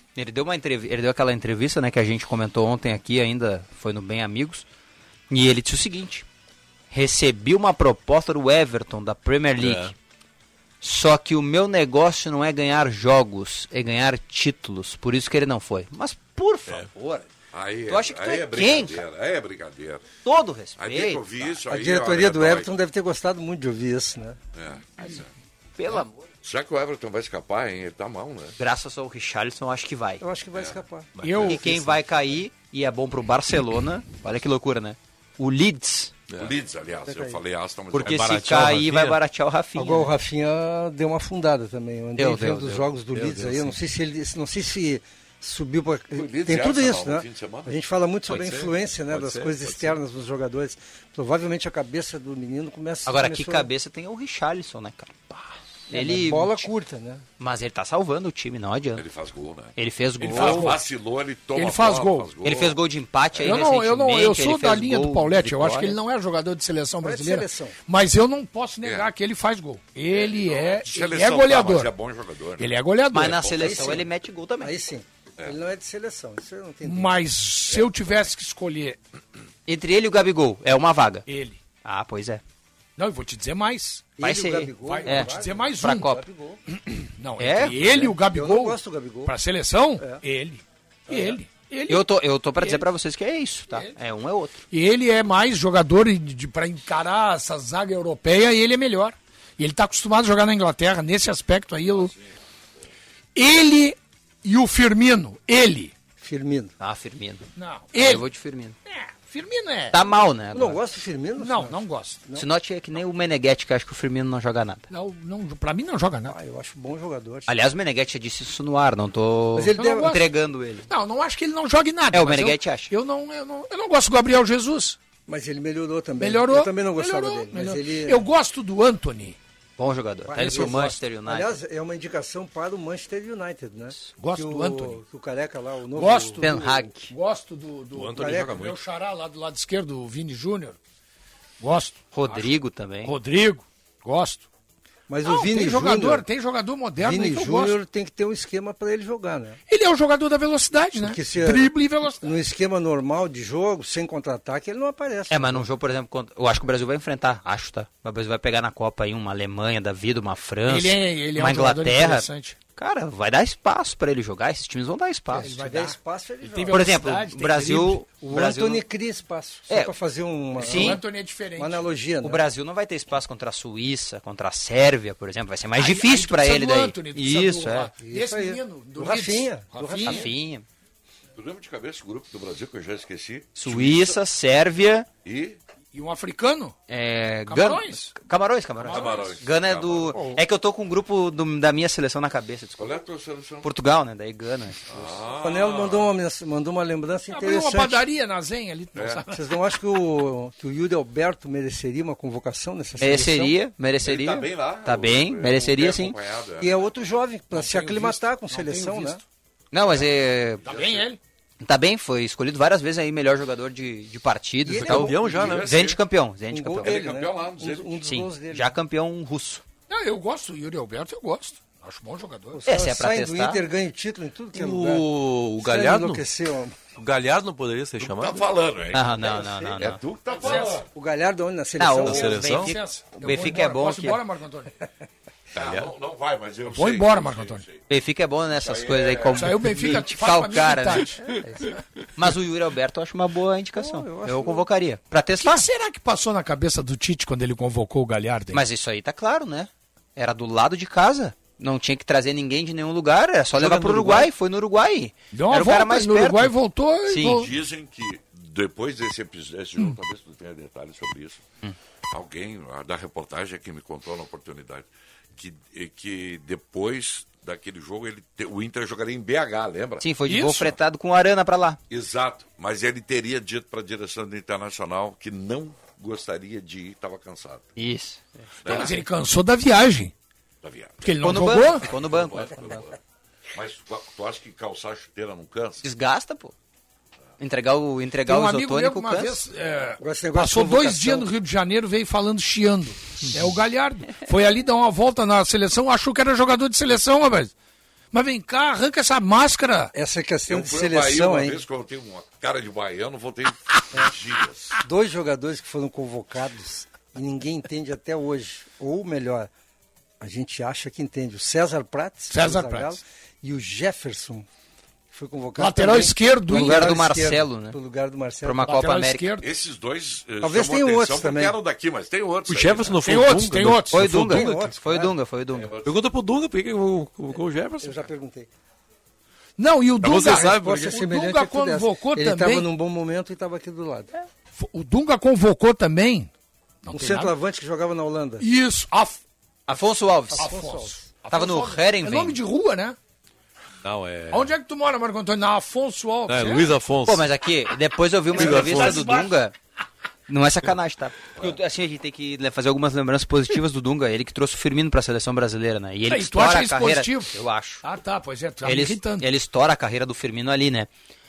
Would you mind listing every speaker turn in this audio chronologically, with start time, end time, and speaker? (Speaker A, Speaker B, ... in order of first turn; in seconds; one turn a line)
Speaker A: 0.1-4.7
Speaker A: 5.3-6.2
Speaker A: 6.9-9.9
Speaker B: 9.6-9.9
Speaker A: 10.8-17.2
Speaker C: 17.5-20.1
Speaker A: 17.9-19.0
Speaker A: 20.2-21.2
Speaker C: 20.8-22.7
Speaker D: 21.7-24.4
Speaker C: 24.6-25.3
Speaker A: 25.8-26.2
Speaker C: 26.4-28.6
Speaker A: 28.6-30.2
Speaker D: 30.2-31.1
Speaker C: 30.5-30.8
Speaker B: 31.2-31.7
Speaker E: 31.2-31.8
Speaker A: 31.4-36.1
Speaker C: 36.4-38.3
Speaker D: 37.1-37.4
Speaker A: 37.9-40.1
Speaker B: 38.0-39.2
Speaker D: 39.8-53.7
Speaker A: 42.2-42.9
Speaker B: 43.1-43.8
Speaker C: 46.1-47.8
Speaker B: 48.3-50.0
Speaker A: 53.1-55.4
Speaker A: 55.9-56.7
Speaker D: 55.9-57.2
Speaker A: 57.4-59.0
Speaker C: 59.0-62.8
Speaker A: 59.8-60.8
Speaker E: 60.2-60.8
Speaker E: 61.5-62.3
Speaker A: 62.4-66.0
Speaker E: 63.4-71.9
Speaker D: 67.0-67.8
Speaker C: 68.8-69.1
Speaker C: 70.1-72.7
Speaker E: 72.6-73.6
Speaker A: 73.1-74.7
Speaker C: 73.3-73.9
Speaker D: 73.6-74.1
Speaker D: 74.6-77.2
Speaker E: 76.8-79.0
Speaker A: 79.7-81.2
Speaker E: 81.3-81.6
Speaker A: 81.8-82.4
Speaker E: 83.0-84.1
Speaker D: 84.2-86.6
Speaker A: 84.2-86.2
Speaker E: 84.8-86.1
Speaker E: 86.7-92.0
Speaker A: 87.4-88.0
Speaker D: 87.8-89.3
Speaker D: 91.1-91.4
Speaker A: 91.9-94.7
Speaker E: 92.6-92.8
Speaker E: 94.7-102.1
Speaker E: 103.3-105.9
Speaker D: 106.2-106.8
Speaker A: 106.8-108.8
Speaker E: 107.6-108.2
Speaker E: 108.9-110.0
Speaker A: 109.9-110.8
Speaker D: 110.5-112.5
Speaker E: 111.4-112.2
Speaker A: 112.4-114.9
Speaker E: 114.9-116.4
Speaker D: 116.3-117.5
Speaker A: 117.5-120.9
Speaker D: 119.6-120.2
Speaker E: 119.8-120.2
Speaker E: 120.9-125.0
Speaker A: 122.1-122.9
Speaker D: 125.3-128.2
Speaker E: 126.2-129.4
Speaker A: 129.8-131.6
Speaker D: 130.3-136.8
Speaker E: 130.4-131.0
Speaker E: 134.2-135.0
Speaker E: 135.9-140.8
Speaker A: 136.4-137.1
Speaker B: 137.9-138.8
Speaker D: 138.2-138.6
Speaker E: 141.6-142.5
Speaker A: 142.1-143.1
Speaker E: 143.0-144.5
Speaker D: 145.1-146.2
Speaker E: 145.2-147.8
Speaker D: 147.0-149.6
Speaker E: 149.7-152.3
Speaker D: 151.0-155.7
Speaker A: 155.3-165.6
Speaker E: 160.7-162.6
Speaker E: 165.3-168.0
Speaker D: 165.4-166.9
Speaker A: 166.7-168.8
Speaker D: 168.2-171.0
Speaker A: 170.6-171.0
Speaker E: 170.6-171.9
Speaker D: 171.6-172.4
Speaker A: 172.2-177.9
Speaker E: 175.8-180.3
Speaker D: 178.0-180.3
Speaker A: 180.0-180.7
Speaker C: 181.4-184.2
Speaker A: 183.6-185.1
Speaker C: 185.2-185.6
Speaker E: 185.9-186.8
Speaker A: 186.9-193.0
Speaker E: 187.5-188.1
Speaker E: 188.8-189.4
Speaker C: 188.8-190.2
Speaker E: 190.1-190.4
Speaker C: 192.8-193.7
Speaker A: 193.6-195.2
Speaker C: 194.9-196.1
Speaker D: 195.4-198.0
Speaker E: 197.3-199.4
Speaker C: 198.9-199.2
Speaker D: 199.3-203.6
Speaker A: 203.0-206.2
Speaker C: 204.0-206.9
Speaker D: 206.6-209.2
Speaker E: 207.6-209.2
Speaker A: 209.7-210.6
Speaker C: 210.6-211.1
Speaker E: 210.7-211.2
Speaker A: 211.6-217.0
Speaker D: 214.7-215.6
Speaker B: 214.8-215.7
Speaker C: 215.2-216.0
Speaker D: 216.5-218.8
Speaker C: 216.8-218.0
Speaker A: 218.0-219.7
Speaker E: 219.9-222.6
Speaker D: 222.5-226.8
Speaker A: 222.7-223.6
Speaker B: 224.5-226.3
Speaker B: 227.0-228.5
Speaker C: 228.0-230.8
Speaker A: 228.9-230.0
Speaker E: 230.4-230.8
Speaker D: 230.8-232.5
Speaker A: 231.8-234.2
Speaker B: 232.0-232.7
Speaker E: 232.6-234.8
Speaker C: 235.6-237.8
Speaker B: 235.6-235.9
Speaker E: 236.7-237.7
Speaker A: 237.9-241.2
Speaker C: 238.6-239.5
Speaker E: 239.3-241.2
Speaker D: 241.4-241.8
Speaker A: 242.2-245.7
Speaker D: 243.8-244.7
Speaker E: 245.4-248.6
Speaker A: 248.5-256.5
Speaker E: 253.6-254.3
Speaker E: 255.3-257.5
Speaker A: 257.1-257.4
Speaker C: 257.3-261.4
Speaker C: 262.1-270.1
Speaker A: 270.0-271.8
Speaker E: 270.3-270.8
Speaker C: 271.9-277.7
Speaker A: 277.8-278.3
Speaker C: 278.6-279.0
Speaker E: 278.7-280.1
Speaker C: 280.6-281.0
Speaker E: 281.0-281.9
Speaker A: 281.2-282.8
Speaker C: 281.9-283.0
Speaker C: 283.5-285.8
Speaker A: 285.8-286.5
Speaker A: 287.4-289.4
Speaker E: 288.3-297.5
Speaker D: 290.0-291.3
Speaker E: 298.1-299.9
Speaker D: 299.9-301.6
Speaker C: 300.5-304.8
Speaker D: 304.8-309.5
Speaker D: 310.2-314.5
Speaker E: 312.3-313.0
Speaker D: 315.1-318.8
Speaker E: 315.6-316.9
Speaker A: 316.5-317.8
Speaker A: 318.4-319.3
Speaker E: 318.7-319.5
Speaker C: 319.4-323.0
Speaker D: 320.4-321.6
Speaker B: 322.5-324.7
Speaker E: 323.0-324.2
Speaker A: 323.9-325.7
Speaker D: 324.1-325.1
Speaker C: 325.5-325.9
Speaker B: 325.8-328.1
Speaker D: 327.8-328.5
Speaker E: 329.6-332.7
Speaker B: 330.0-331.0
Speaker D: 330.1-334.1
Speaker E: 334.6-336.3
Speaker E: 336.8-337.3
Speaker D: 336.9-338.4
Speaker E: 338.4-339.2
Speaker A: 339.7-340.6
Speaker D: 340.3-341.1
Speaker E: 340.4-343.0
Speaker A: 341.3-342.4
Speaker B: 343.8-344.5
Speaker E: 344.3-346.8
Speaker B: 346.3-347.3
Speaker A: 347.1-349.5
Speaker B: 348.4-349.1
Speaker E: 348.4-349.3
Speaker A: 350.3-357.8
Speaker E: 356.1-359.3
Speaker A: 358.6-360.9